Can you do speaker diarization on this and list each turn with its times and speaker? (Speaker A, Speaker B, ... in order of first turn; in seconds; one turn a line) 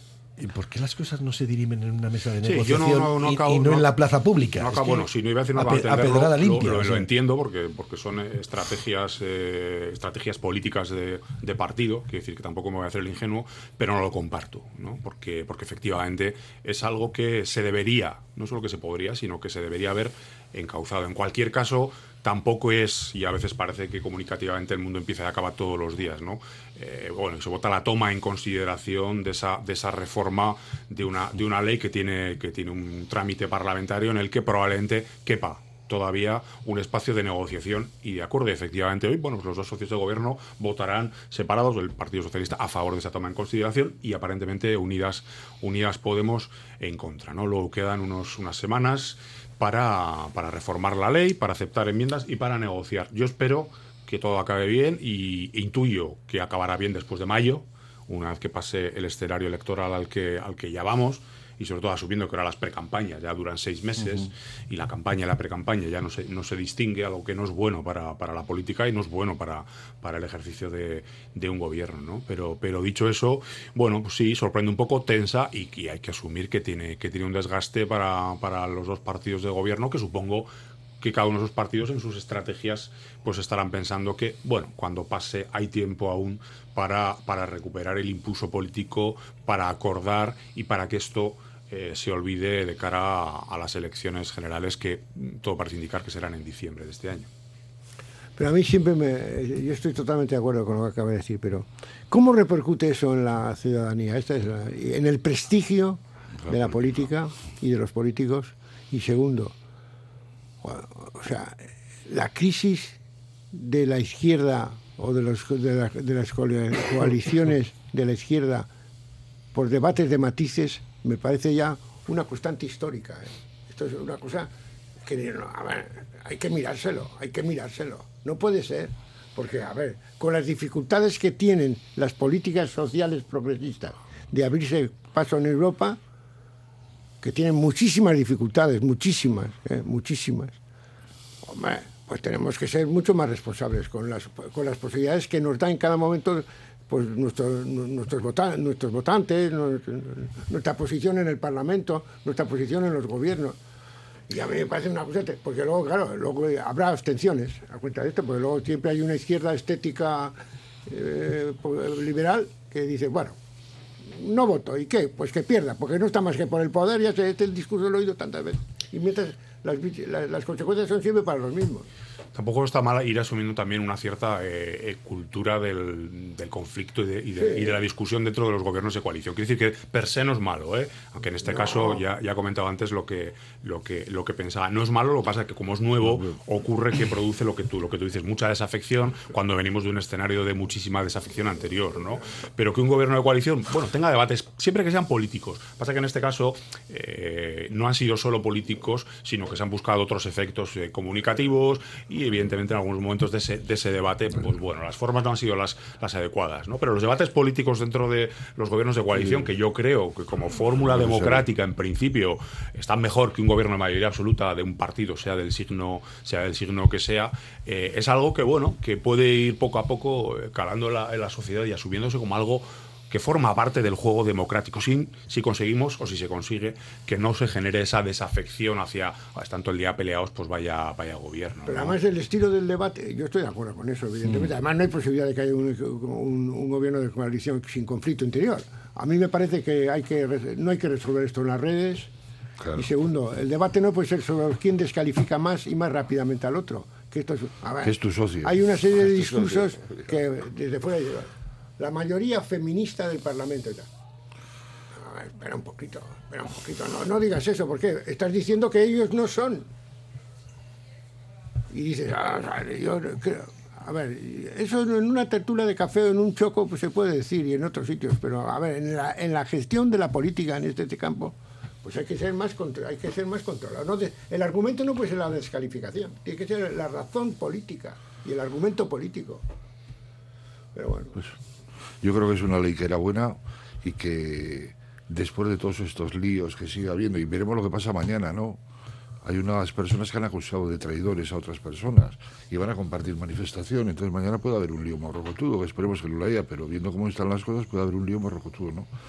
Speaker A: 0.4-7.1
Speaker B: 2.4-3.9
Speaker B: 4.5-97.3
Speaker C: 98.4-109.5
Speaker D: 106.4-107.1
Speaker C: 110.6-113.0
Speaker C: 113.5-118.7
Speaker C: 119.5-124.5
Speaker C: 125.0-136.0
Speaker C: 137.2-140.6
Speaker C: 141.4-153.6
Speaker C: 154.3-160.3
Speaker C: 160.8-163.4
Speaker C: 164.1-171.9
Speaker B: 172.3-232.0
Speaker C: 177.4-177.8
Speaker C: 181.5-182.0
Speaker D: 186.0-186.3
Speaker D: 209.1-209.5
Speaker D: 210.8-211.5
Speaker C: 231.7-242.1
Speaker D: 234.2-234.5
Speaker D: 242.6-242.8
Speaker C: 242.7-253.9
Speaker D: 247.8-250.0
Speaker C: 254.9-259.7
Speaker C: 261.7-279.4
Speaker C: 280.7-281.2
Speaker D: 282.0-288.6
Speaker D: 289.2-298.9